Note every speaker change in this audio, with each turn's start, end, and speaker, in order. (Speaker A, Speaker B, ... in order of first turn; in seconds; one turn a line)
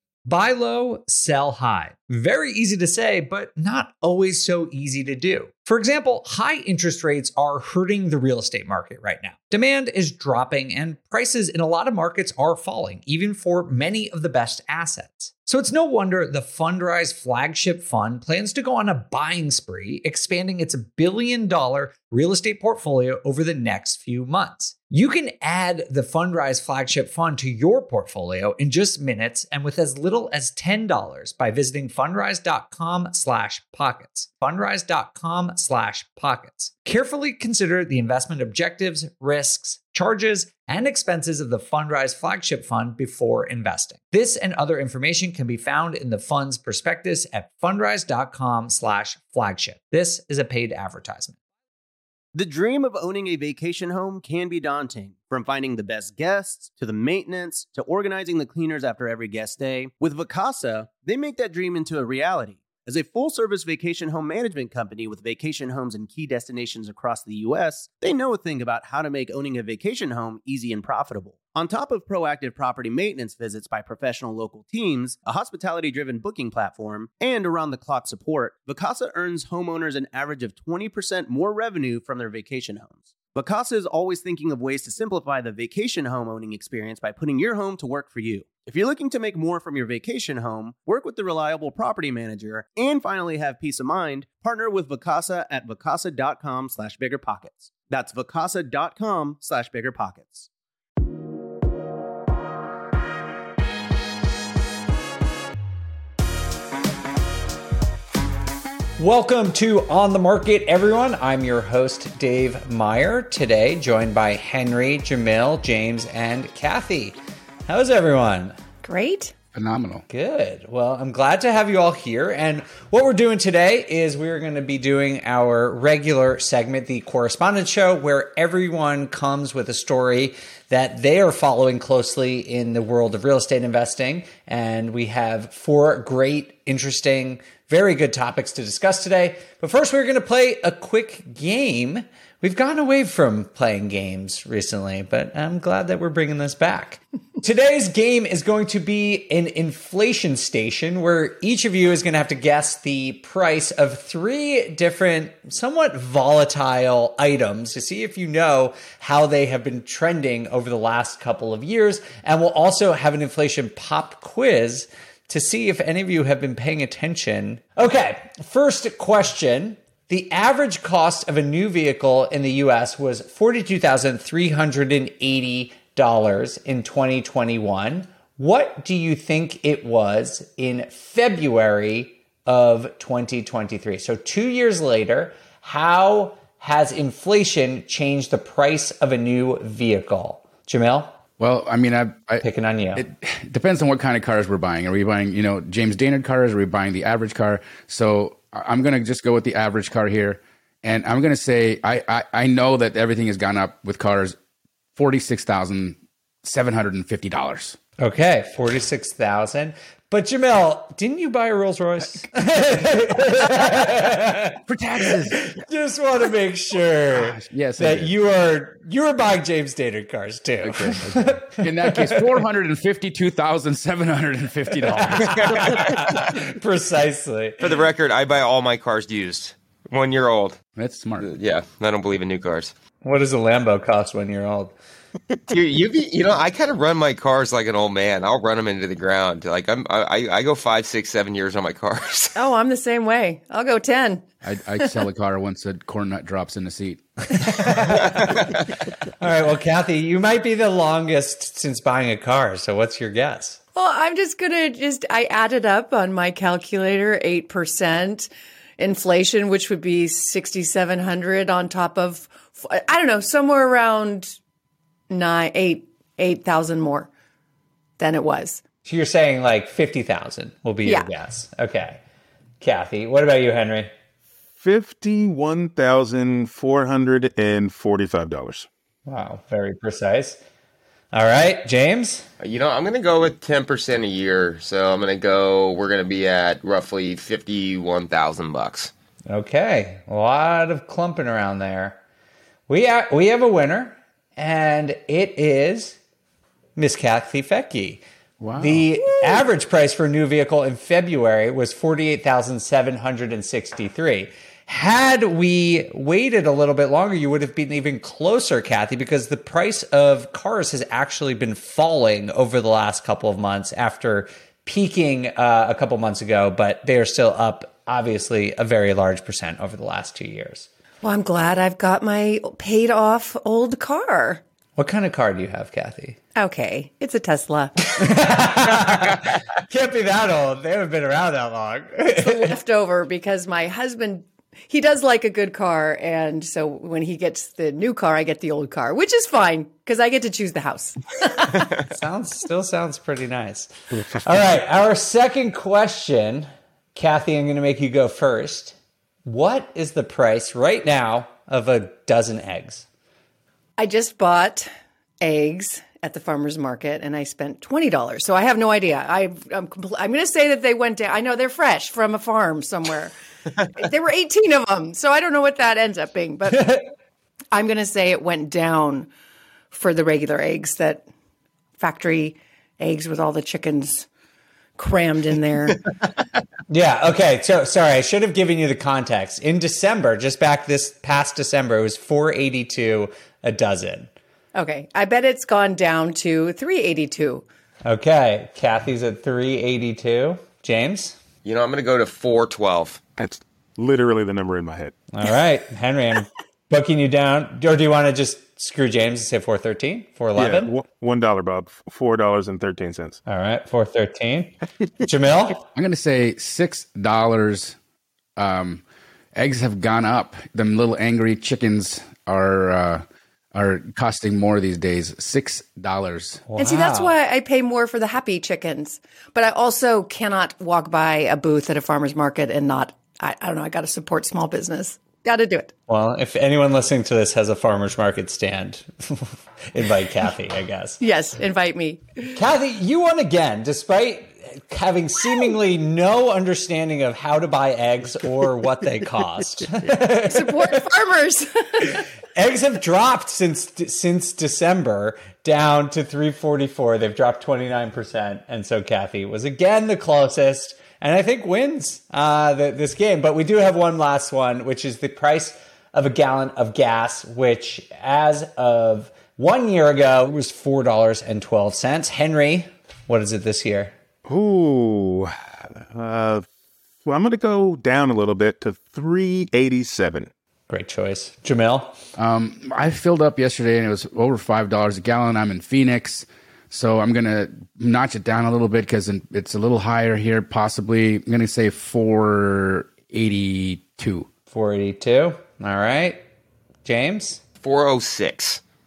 Speaker A: 0.3-51.4
Speaker B: 52.3-100.5
Speaker A: 109.0-117.2
Speaker A: 117.7-118.6
Speaker C: 118.8-119.3
Speaker D: 119.5-120.0
Speaker A: 120.1-191.2
Speaker D: 191.4-192.4
Speaker A: 192.4-193.0
Speaker D: 193.0-204.4
Speaker D: 205.0-207.8
Speaker A: 208.0-222.2
Speaker D: 214.7-215.4
Speaker D: 217.1-218.1
Speaker D: 220.6-226.1
Speaker A: 225.0-227.7
Speaker E: 227.6-230.6
Speaker D: 230.8-231.3
Speaker E: 231.2-232.7
Speaker A: 233.0-234.8
Speaker E: 235.5-242.4
Speaker C: 242.4-244.3
Speaker D: 244.4-247.7
Speaker A: 247.4-248.3
Speaker A: 249.2-253.6
Speaker C: 253.8-264.4
Speaker C: 265.1-267.1
Speaker C: 268.0-268.6
Speaker A: 268.9-272.0
Speaker A: 272.6-273.9
Speaker F: 274.6-278.7
Speaker A: 279.1-280.4
Speaker A: 281.1-282.3
Speaker E: 282.4-288.9
Speaker A: 289.3-292.0
Speaker A: 292.7-296.0
Speaker A: 296.8-298.0
Speaker D: 298.4-299.4
Speaker A: 298.6-320.7
Speaker C: 321.0-324.4
Speaker A: 324.8-326.2
Speaker C: 326.4-328.0
Speaker A: 328.0-332.5
Speaker C: 332.1-341.7
Speaker A: 341.8-352.9
Speaker C: 353.8-354.7
Speaker C: 355.2-363.1
Speaker C: 363.7-366.8
Speaker C: 367.5-369.1
Speaker C: 369.7-371.1
Speaker C: 371.8-374.1
Speaker C: 374.8-375.9
Speaker A: 376.7-384.1
Speaker C: 384.6-387.4
Speaker A: 387.9-391.2
Speaker E: 391.4-393.0
Speaker F: 393.2-394.9
Speaker A: 395.1-400.7
Speaker F: 400.4-403.2
Speaker A: 403.3-405.6
Speaker D: 405.8-407.8
Speaker D: 408.4-408.8
Speaker D: 409.4-416.4
Speaker A: 416.5-417.1
Speaker C: 416.6-425.7
Speaker A: 425.9-431.0
Speaker C: 431.0-432.3
Speaker A: 432.3-440.8
Speaker C: 440.3-442.0
Speaker A: 441.9-463.9
Speaker F: 464.3-466.5
Speaker F: 467.1-470.3
Speaker A: 470.7-471.9
Speaker D: 472.2-484.3
Speaker A: 484.5-486.2
Speaker A: 486.9-487.4
Speaker E: 487.6-488.6